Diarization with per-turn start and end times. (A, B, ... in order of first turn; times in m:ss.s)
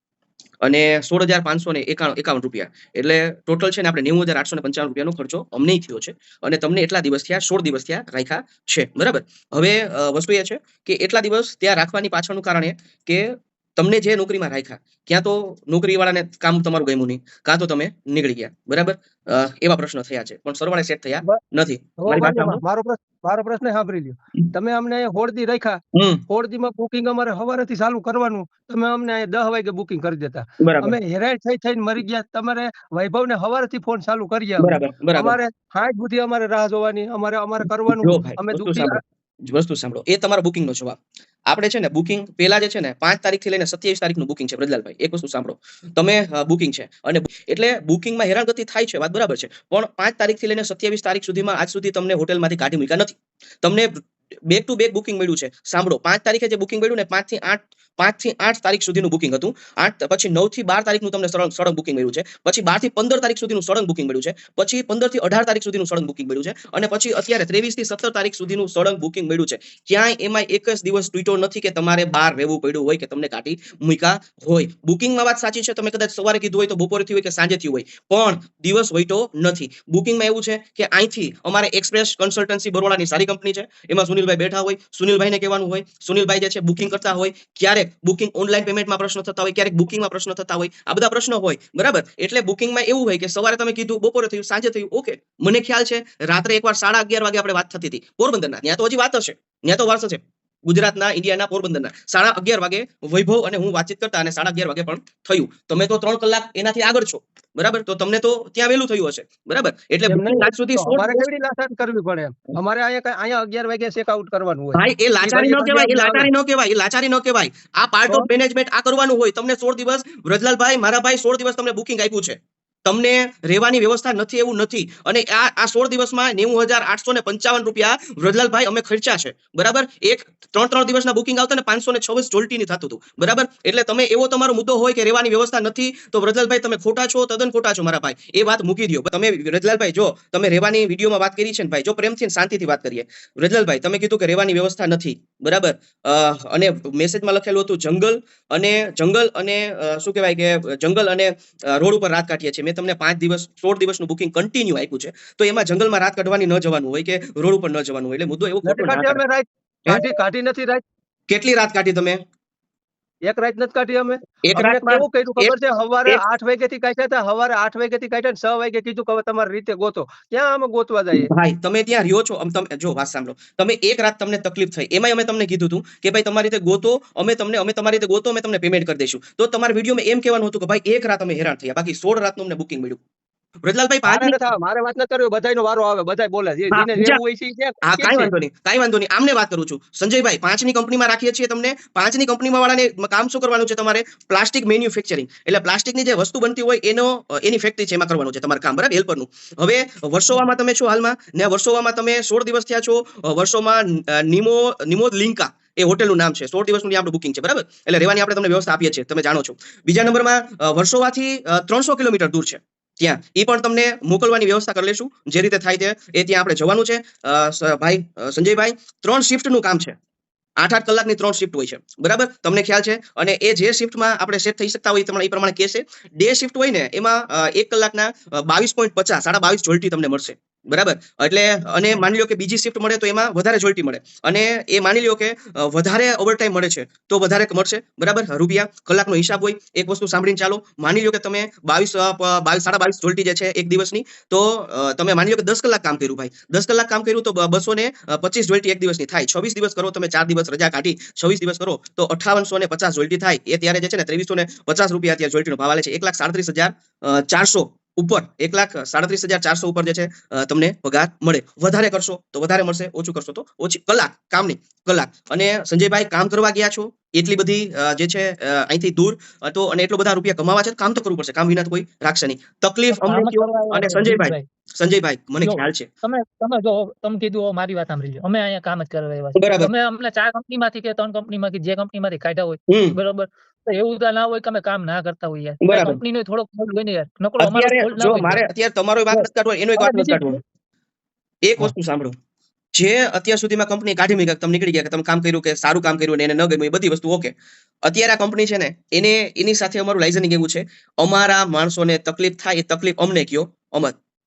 0:00.6-0:22.6 A
0:22.0-0:39.0 B
0:25.9-0:26.2 A
0:30.6-0:31.0 A
0:34.6-0:35.4 A
0:38.0-1:51.3 A
1:50.1-1:56.3 B
1:54.7-2:39.2 A
2:38.6-2:40.8 B
2:39.9-2:40.1 A
2:41.3-2:42.2 A
2:43.2-2:51.3 B
2:44.4-2:45.5 A
2:51.2-3:03.0 A
3:03.6-3:04.4 A
3:04.0-3:08.3 B
3:06.7-3:07.2 A
3:07.8-3:40.0 A
3:40.6-4:35.9 A
4:32.9-4:34.4 C
4:35.4-4:48.4 C
4:39.4-4:39.7 A
4:42.7-4:43.0 A
4:45.6-4:46.0 A
4:47.4-4:50.4 A
4:49.1-4:50.4 C
4:51.4-4:52.1 A
4:52.7-5:03.9 A